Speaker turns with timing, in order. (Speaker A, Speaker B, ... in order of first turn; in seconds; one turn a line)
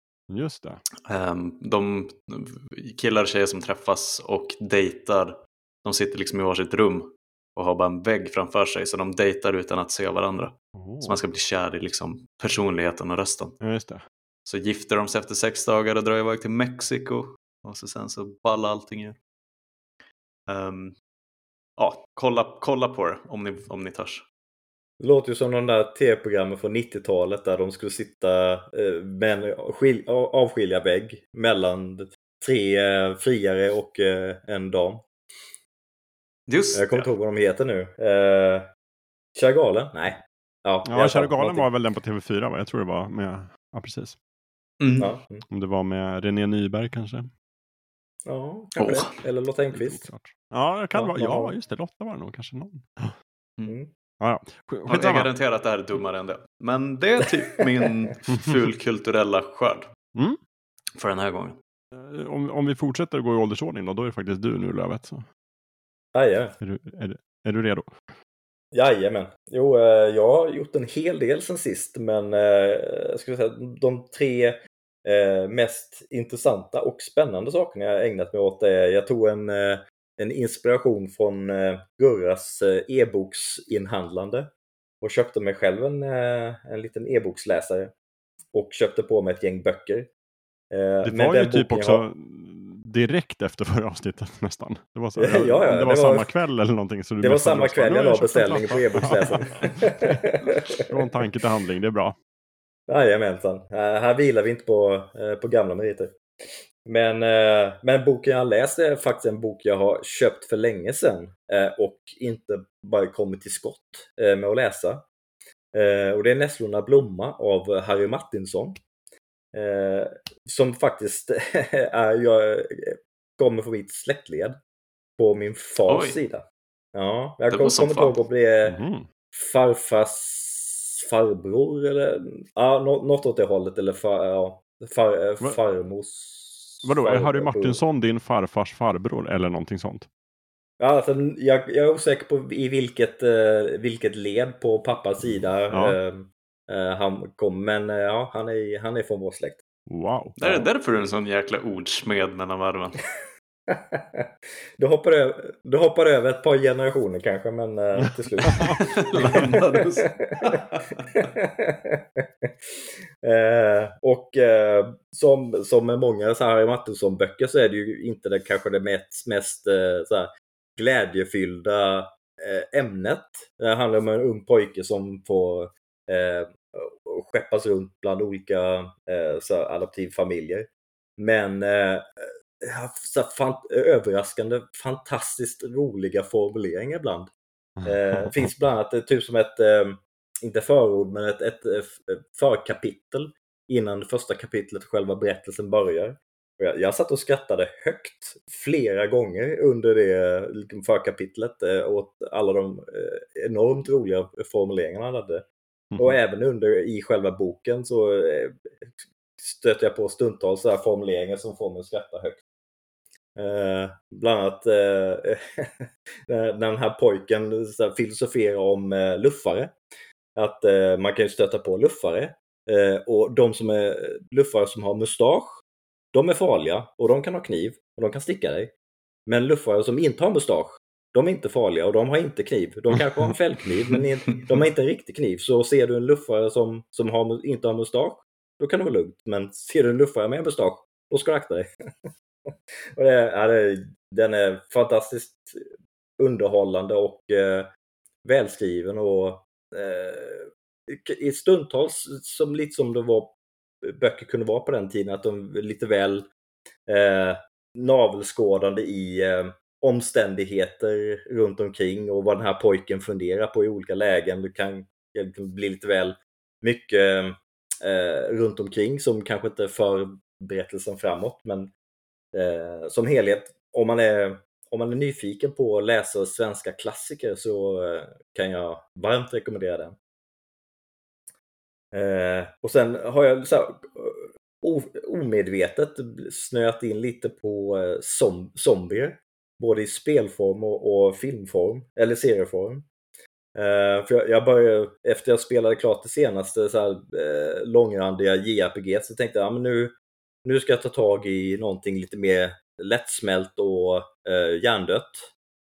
Speaker A: 0.3-0.8
Speaker B: 1.1-13.6
Speaker A: 10.7-11.2
Speaker A: 13.6-14.0
Speaker B: 14.4-19.2
Speaker B: 20.5-21.0
Speaker B: 21.8-24.2
Speaker C: 25.0-35.1
Speaker B: 36.5-37.1
Speaker C: 36.7-38.7
Speaker C: 39.3-41.7
Speaker A: 40.8-44.2
Speaker B: 44.8-45.1
Speaker C: 45.0-45.4
Speaker A: 45.5-47.3
Speaker C: 48.2-50.1
Speaker B: 48.8-49.1
Speaker A: 49.7-53.1
Speaker C: 50.9-51.5
Speaker A: 54.2-55.3
Speaker B: 54.9-59.9
Speaker B: 61.0-61.6
Speaker A: 61.9-65.2
Speaker C: 66.1-66.5
Speaker A: 66.6-67.9
Speaker C: 68.7-84.5
Speaker C: 85.0-87.9
Speaker C: 88.5-90.1
Speaker C: 90.7-92.0
Speaker A: 91.0-102.2
Speaker C: 95.2-96.3
Speaker C: 97.2-101.0
Speaker C: 102.9-106.1
Speaker C: 106.8-115.0
Speaker C: 115.7-118.8
Speaker C: 119.5-124.6
Speaker C: 125.2-128.8
Speaker B: 125.8-126.2
Speaker B: 127.5-128.2
Speaker A: 128.6-129.1
Speaker C: 129.3-137.8
Speaker A: 136.8-140.1
Speaker C: 140.8-149.6
Speaker A: 145.7-146.0
Speaker A: 149.9-150.7
Speaker B: 150.4-153.0
Speaker C: 153.7-154.2
Speaker C: 154.8-160.6
Speaker A: 158.5-158.8
Speaker B: 158.9-161.2
Speaker C: 161.1-162.5
Speaker C: 163.2-187.3
Speaker A: 187.8-188.3
Speaker C: 187.8-205.4
Speaker A: 205.9-206.2
Speaker C: 206.0-208.7
Speaker C: 209.4-212.4
Speaker C: 213.3-219.7
Speaker C: 220.3-225.6
Speaker C: 226.1-228.7
Speaker C: 229.3-241.7
Speaker C: 242.9-245.6
Speaker C: 246.2-247.7
Speaker C: 248.2-256.3
Speaker C: 256.9-271.7
Speaker C: 272.3-279.9
Speaker C: 281.9-292.8
Speaker C: 293.6-299.9
Speaker C: 300.4-305.3